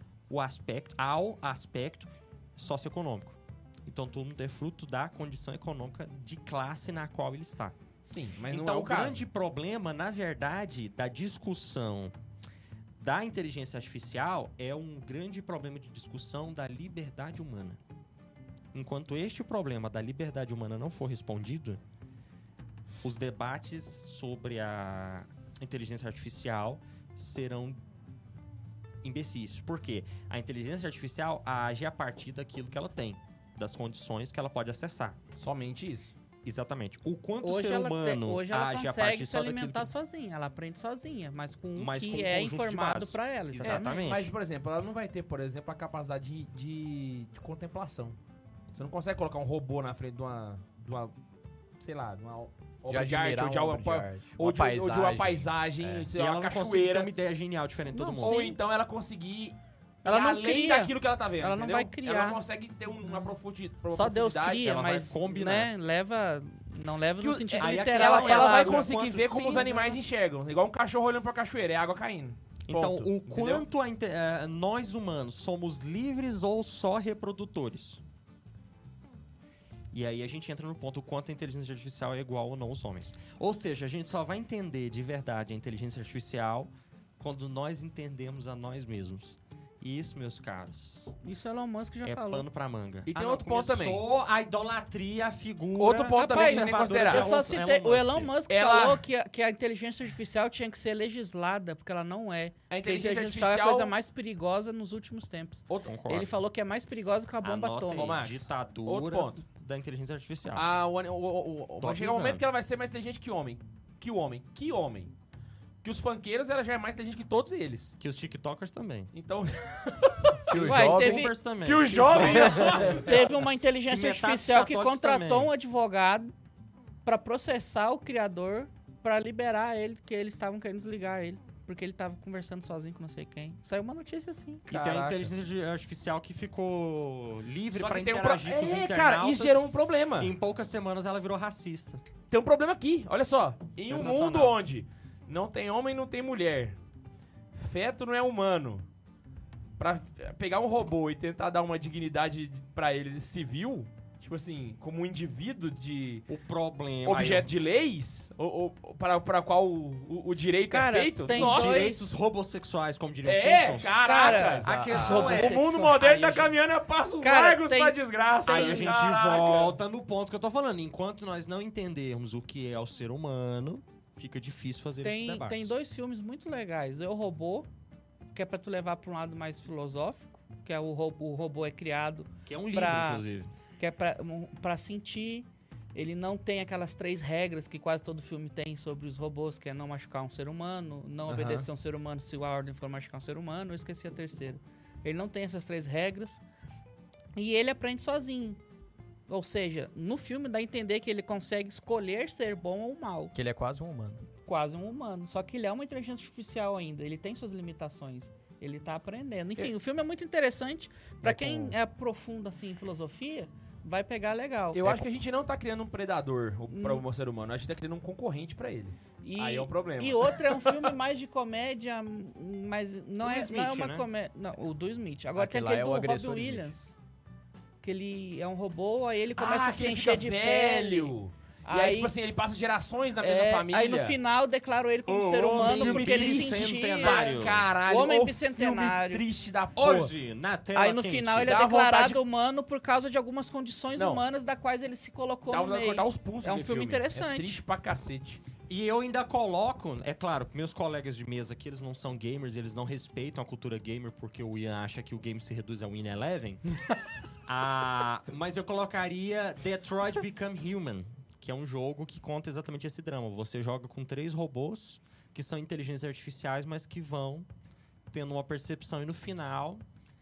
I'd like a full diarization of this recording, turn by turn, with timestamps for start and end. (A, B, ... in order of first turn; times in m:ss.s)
0:00.3-0:07.8 A
0:08.1-0:09.2 B
0:08.5-0:12.1 A
0:13.0-0:17.8 A
0:18.7-0:21.8 A
0:23.0-0:27.8 A
0:29.0-0:35.2 A
0:35.3-0:36.1 B
0:36.4-0:39.9 A
0:37.4-0:44.1 C
0:41.7-0:44.3 A
0:43.6-0:48.2 B
0:48.7-0:51.1 B
0:51.8-0:57.1 B
0:52.9-0:56.1 D
0:56.2-0:58.4 A
0:57.9-0:58.6 C
0:58.2-1:04.7 B
1:00.0-1:02.4 C
1:03.9-1:08.9 C
1:04.6-1:05.7 A
1:07.2-1:13.6 B
1:07.6-1:10.0 A
1:12.7-1:18.0 A
1:19.9-1:31.1 A
1:31.2-1:32.4 C
1:32.0-1:38.4 A
1:33.0-1:34.0 B
1:35.8-1:37.3 B
1:36.1-1:48.2 C
1:38.5-1:39.0 B
1:42.7-1:43.9 B
1:45.8-1:46.3 A
1:47.4-1:50.6 A
1:48.0-1:49.4 B
1:50.5-1:55.1 B
1:51.8-1:52.4 A
1:55.8-1:57.9 B
1:58.0-1:59.1 A
1:59.1-2:00.5 B
2:00.5-2:01.3 D
2:00.5-2:03.3 A
2:00.5-2:01.3 C
2:01.6-2:03.3 B
2:02.4-2:02.8 D
2:02.6-2:06.3 C
2:03.8-2:05.5 A
2:07.0-2:14.6 C
2:14.7-2:15.3 B
2:14.7-2:19.6 A
2:17.7-2:20.3 B
2:20.2-2:22.0 A
2:22.3-2:26.8 B
2:23.8-2:24.6 A
2:27.5-2:28.8 B
2:29.8-2:36.2 B
2:36.3-2:37.5 A
2:37.0-2:42.0 B
2:40.7-2:42.1 C
2:41.3-2:46.5 A
2:43.2-2:49.8 B
2:44.0-2:46.0 C
2:44.6-2:45.3 D
2:47.2-2:49.0 C
2:48.5-2:55.7 A
2:55.0-2:57.7 C
2:58.3-3:03.2 C
3:02.4-3:03.5 A
3:03.8-3:16.4 C
3:11.3-3:11.7 B
3:17.4-3:18.6 C
3:19.3-3:23.3 C
3:23.3-3:24.2 D
3:24.4-3:35.0 C
3:31.2-3:31.7 D
3:34.7-3:40.9 B
3:36.7-3:37.0 C
3:39.2-3:46.9 C
3:43.2-3:44.1 A
3:45.4-3:46.7 D
3:47.8-3:51.1 C
3:49.4-3:54.2 B
3:51.6-3:52.1 C
3:53.2-3:59.2 C
3:55.1-3:57.7 A
3:55.5-4:00.1 B
3:59.8-4:01.5 A
4:00.7-4:07.6 C
4:01.4-4:02.2 B
4:04.0-4:04.2 B
4:05.5-4:08.4 B
4:08.7-4:16.6 A
4:17.4-4:27.5 A
4:28.1-4:29.8 A